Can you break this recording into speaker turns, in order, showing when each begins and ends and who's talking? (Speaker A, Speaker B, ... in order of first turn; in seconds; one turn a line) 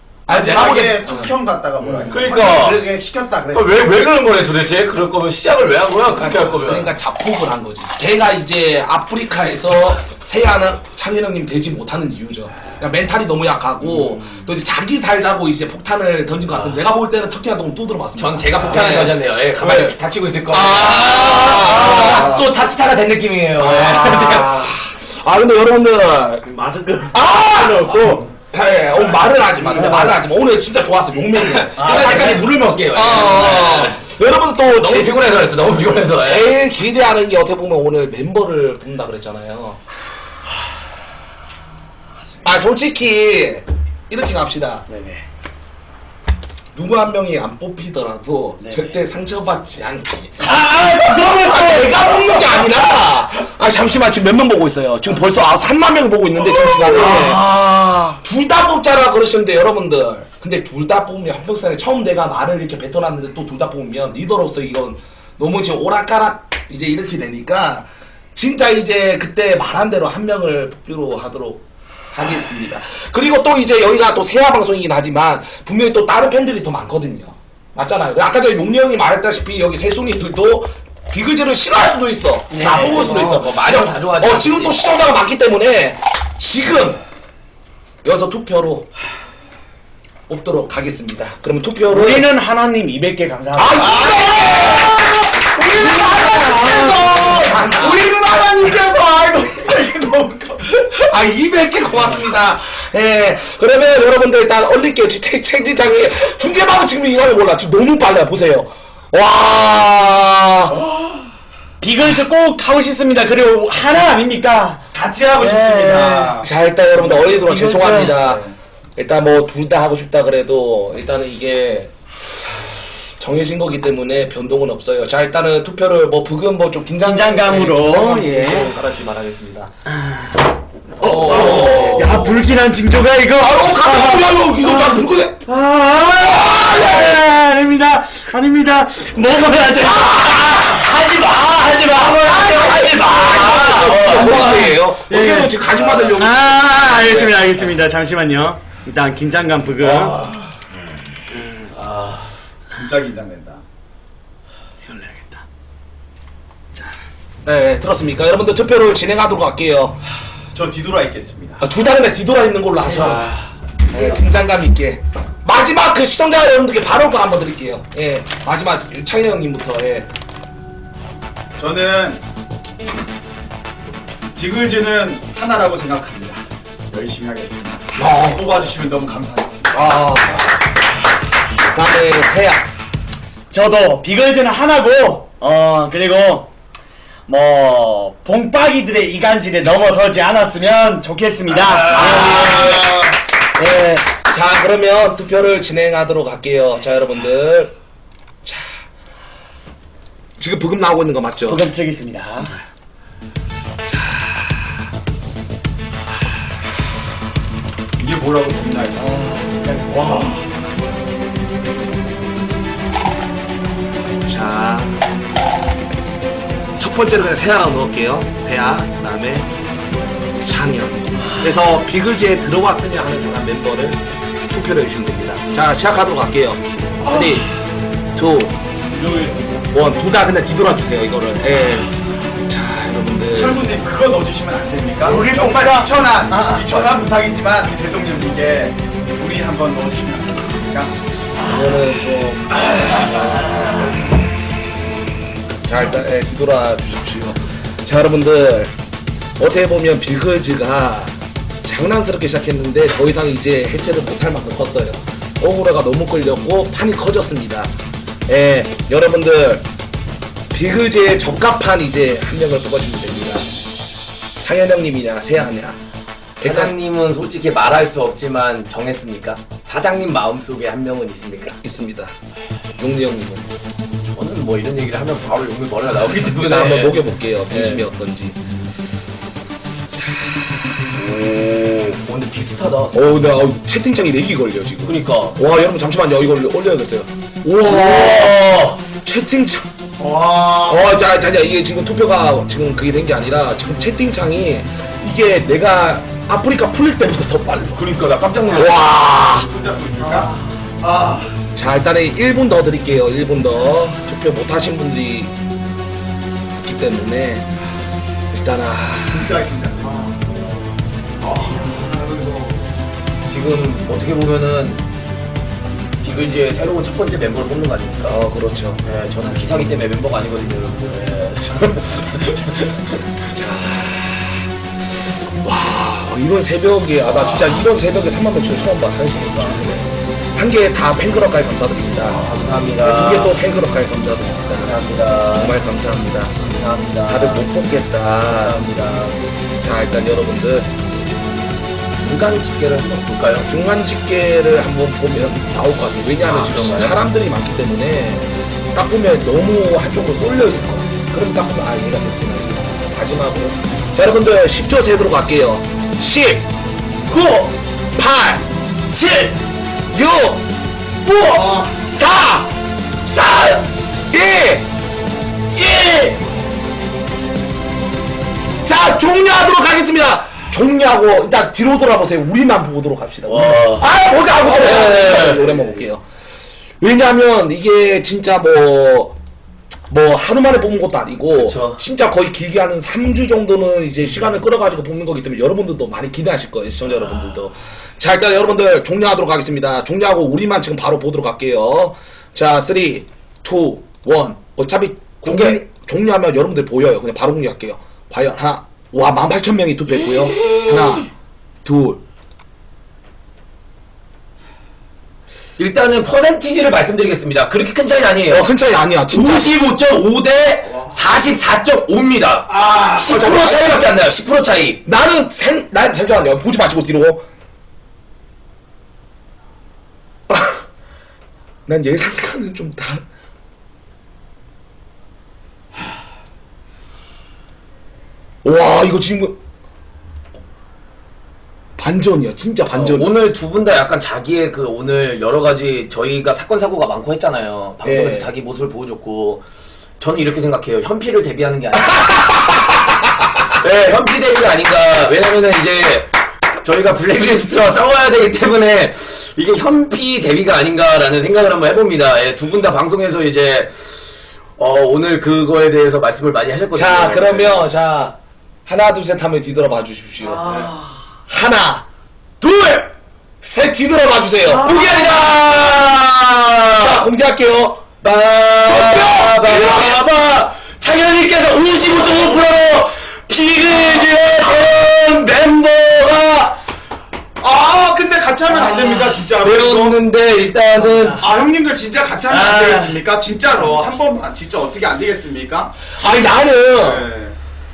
Speaker A: 0.3-1.3
Speaker B: 0.3-4.1
Speaker C: 2.0-3.0
Speaker C: 3.5-6.9
Speaker A: 6.1-20.0
Speaker C: 18.2-24.7
Speaker A: 20.5-22.5
Speaker B: 21.6-22.6
Speaker A: 23.6-26.5
Speaker D: 26.4-28.3
Speaker A: 27.1-35.4
Speaker D: 29.6-30.2
Speaker C: 31.5-34.0
Speaker D: 31.8-32.4
Speaker C: 34.8-36.5
Speaker A: 36.1-39.8
Speaker A: 42.4-44.9
Speaker D: 44.9-45.2
Speaker A: 46.8-57.6
Speaker D: 48.6-49.0
Speaker D: 50.4-52.8
Speaker D: 56.5-58.2
Speaker A: 58.2-71.6
Speaker A: 72.1-87.0
Speaker D: 82.5-83.4
Speaker C: 82.5-84.8
Speaker A: 88.0-88.9
Speaker A: 90.3-92.3
Speaker D: 91.9-94.9
Speaker A: 93.5-98.8
Speaker D: 95.5-100.7
Speaker A: 100.9-110.8
Speaker B: 110.7-111.2
Speaker D: 111.8-116.4
Speaker B: 114.9-116.5
Speaker A: 116.4-121.9
Speaker D: 117.1-118.4
Speaker A: 123.2-129.7
Speaker D: 127.0-128.8
Speaker A: 131.0-132.4
Speaker D: 131.0-150.2
Speaker C: 131.3-131.9
Speaker A: 133.4-135.4
Speaker A: 136.4-137.2
Speaker A: 139.8-140.7
Speaker A: 142.1-146.7
Speaker C: 143.8-144.2
Speaker B: 147.0-147.3
Speaker A: 149.8-150.3
Speaker D: 151.3-151.7
Speaker C: 151.7-152.3
Speaker B: 152.7-153.6
Speaker D: 154.9-155.4
Speaker A: 157.4-160.0
Speaker B: 160.5-161.7
Speaker A: 161.6-163.3
Speaker D: 162.9-164.2
Speaker A: 163.9-170.1
Speaker B: 171.6-172.2
Speaker B: 174.4-179.7
Speaker A: 178.0-178.6
Speaker A: 179.7-180.6
Speaker A: 181.7-182.7
Speaker D: 183.5-186.5
Speaker D: 187.3-194.1
Speaker A: 191.7-193.1
Speaker A: 194.3-197.8
Speaker A: 198.4-198.7
Speaker A: 200.4-201.7
Speaker D: 201.5-202.6
Speaker A: 203.9-204.5
Speaker B: 208.0-209.3
Speaker D: 209.1-210.4
Speaker B: 210.0-210.4
Speaker A: 214.2-215.0
Speaker A: 216.8-219.5
Speaker A: 220.4-227.5
Speaker A: 228.2-228.6
Speaker D: 228.9-229.6
Speaker A: 229.7-231.9
Speaker A: 232.5-233.7
Speaker B: 233.3-241.0
Speaker D: 235.0-237.0
Speaker A: 241.4-243.6
Speaker D: 241.4-241.7
Speaker D: 242.8-244.0
Speaker A: 245.7-248.7
Speaker A: 249.4-257.7
Speaker A: 258.3-259.6
Speaker A: 260.5-263.5
Speaker A: 264.4-265.8
Speaker A: 266.4-266.8
Speaker C: 266.4-271.6
Speaker A: 271.6-272.1
Speaker A: 272.8-273.5
Speaker C: 274.1-277.9
Speaker A: 276.2-278.4
Speaker A: 279.9-280.3
Speaker C: 281.0-283.4
Speaker A: 282.9-289.7
Speaker C: 284.8-285.4
Speaker C: 287.6-288.8
Speaker B: 290.0-290.9
Speaker A: 290.7-297.9
Speaker C: 297.8-298.8
Speaker A: 298.5-299.5
Speaker B: 299.1-301.4
Speaker D: 300.0-300.4
Speaker A: 301.6-305.3
Speaker A: 306.6-307.5
Speaker A: 308.3-309.4
Speaker B: 309.1-310.2
Speaker C: 311.2-311.6
Speaker B: 311.2-312.6
Speaker C: 313.3-314.8
Speaker C: 316.0-318.2
Speaker A: 318.1-318.8
Speaker C: 318.8-322.7
Speaker A: 323.2-332.3
Speaker C: 327.1-327.7
Speaker C: 329.4-329.7
Speaker C: 332.0-333.4
Speaker A: 332.8-334.8
Speaker C: 334.6-335.6
Speaker A: 335.3-336.5
Speaker C: 336.4-337.4
Speaker A: 337.1-338.7
Speaker C: 338.3-339.2
Speaker A: 339.6-340.7
Speaker C: 342.0-343.5
Speaker A: 343.4-356.5
Speaker C: 346.2-347.0
Speaker A: 357.1-359.1
Speaker A: 359.9-360.5
Speaker A: 361.0-362.5
Speaker B: 361.4-361.7
Speaker A: 363.1-364.7
Speaker A: 365.6-365.9
Speaker A: 368.6-376.0
Speaker C: 373.3-375.8
Speaker A: 376.8-379.2
Speaker A: 379.9-401.1
Speaker C: 381.4-381.8
Speaker C: 395.2-395.6
Speaker C: 400.4-401.0
Speaker A: 401.6-402.0
Speaker C: 405.6-408.5
Speaker A: 408.3-409.6
Speaker C: 409.1-414.8
Speaker B: 412.6-413.0
Speaker A: 413.0-413.9
Speaker A: 414.9-417.3
Speaker A: 420.3-420.6
Speaker A: 421.7-423.0
Speaker A: 428.4-429.4
Speaker A: 431.8-433.1
Speaker C: 432.7-439.4
Speaker A: 437.8-438.3
Speaker C: 440.0-442.4
Speaker A: 442.0-442.9
Speaker C: 443.6-446.1
Speaker C: 446.6-453.8
Speaker C: 454.6-457.6
Speaker A: 456.7-460.7
Speaker D: 460.2-461.0
Speaker A: 461.3-461.9
Speaker C: 462.4-462.9
Speaker A: 463.4-465.5
Speaker C: 464.4-467.0
Speaker A: 466.8-468.0
Speaker C: 468.0-476.6
Speaker A: 468.6-470.0
Speaker B: 477.4-480.0
Speaker D: 478.5-479.2
Speaker C: 479.3-481.2
Speaker D: 480.8-481.2
Speaker B: 481.2-485.8
Speaker D: 482.3-483.0
Speaker A: 486.0-487.1
Speaker B: 486.7-487.4